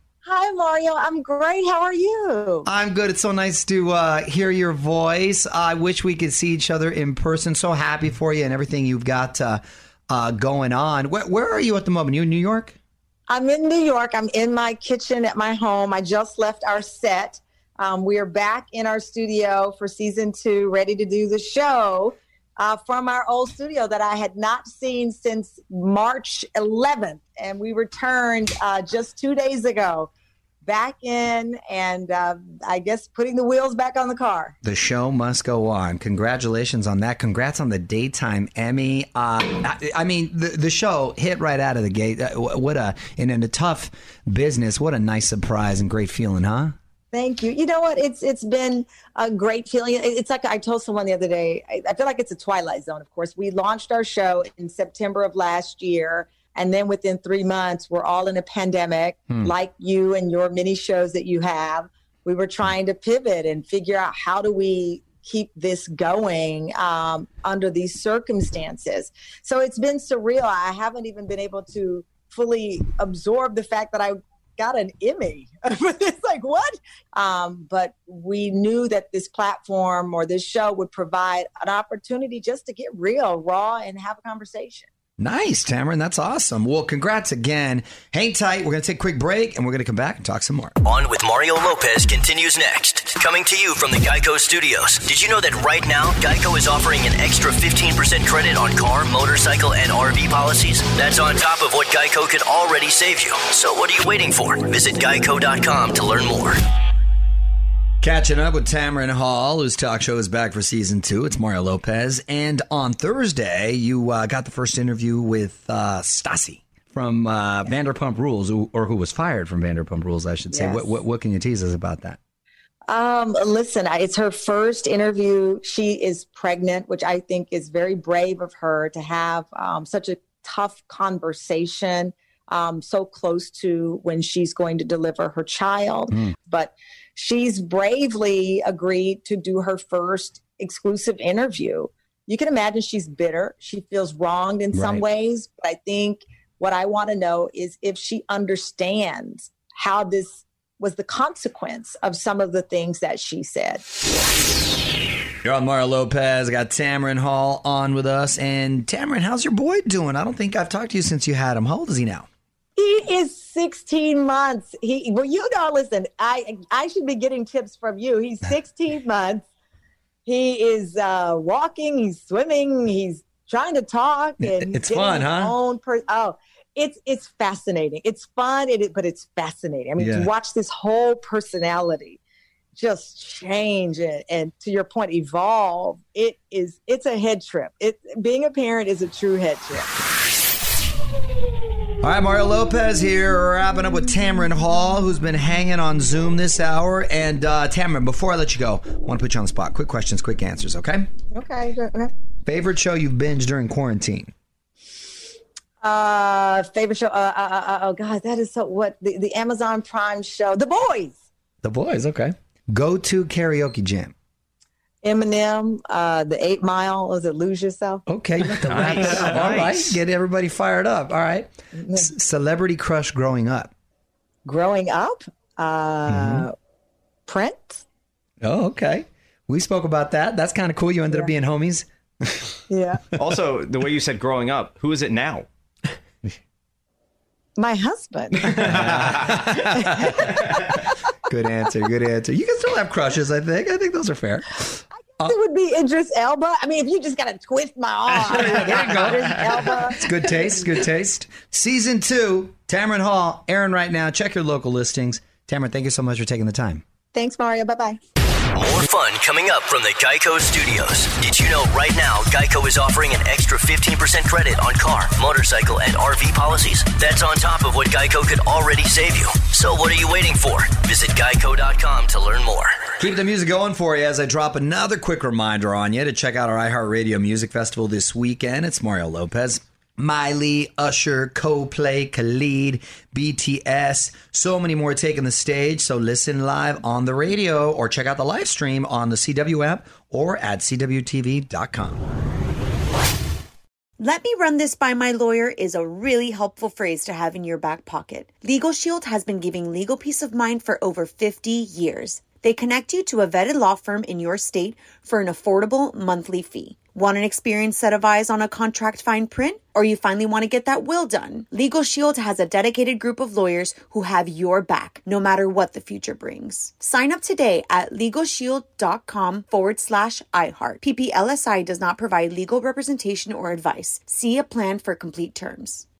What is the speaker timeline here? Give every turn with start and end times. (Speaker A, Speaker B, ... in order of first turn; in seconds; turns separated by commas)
Speaker A: 0.2-2.7, Speaker B: 2.6-12.8, Speaker A: 13.3-30.1, Speaker A: 30.6-34.5, Speaker B: 34.6-46.8, Speaker A: 47.1-84.9, Speaker B: 85.2-90.7, Speaker C: 90.8-106.6, Speaker B: 108.0-122.2, Speaker A: 120.5-120.9, Speaker A: 122.9-153.8, Speaker B: 144.7-145.0, Speaker B: 155.4-162.3, Speaker A: 162.8-169.4, Speaker A: 170.2-182.2, Speaker B: 174.4-175.5, Speaker B: 180.0-180.3, Speaker A: 182.8-189.9, Speaker B: 192.0-201.1, Speaker A: 201.3-202.1, Speaker B: 202.4-204.3, Speaker A: 205.8-211.2, Speaker B: 211.6-214.1, Speaker A: 215.0-218.0, Speaker B: 218.1-223.7, Speaker D: 218.6-219.9, Speaker A: 221.8-222.1, Speaker A: 224.4-226.5, Speaker B: 226.1-226.4, Speaker A: 227.3-227.8, Speaker B: 228.4-232.5, Speaker A: 232.7-233.0, Speaker D: 233.1-235.5, Speaker A: 237.6-238.9, Speaker D: 238.6-239.1, Speaker B: 238.6-240.4, Speaker A: 239.5-240.9, Speaker B: 241.2-245.3, Speaker A: 245.2-250.1, Speaker B: 248.3-256.8, Speaker A: 257.1-258.0, Speaker C: 258.5-272.9, Speaker B: 273.0-292.0, Speaker E: 294.0-325.9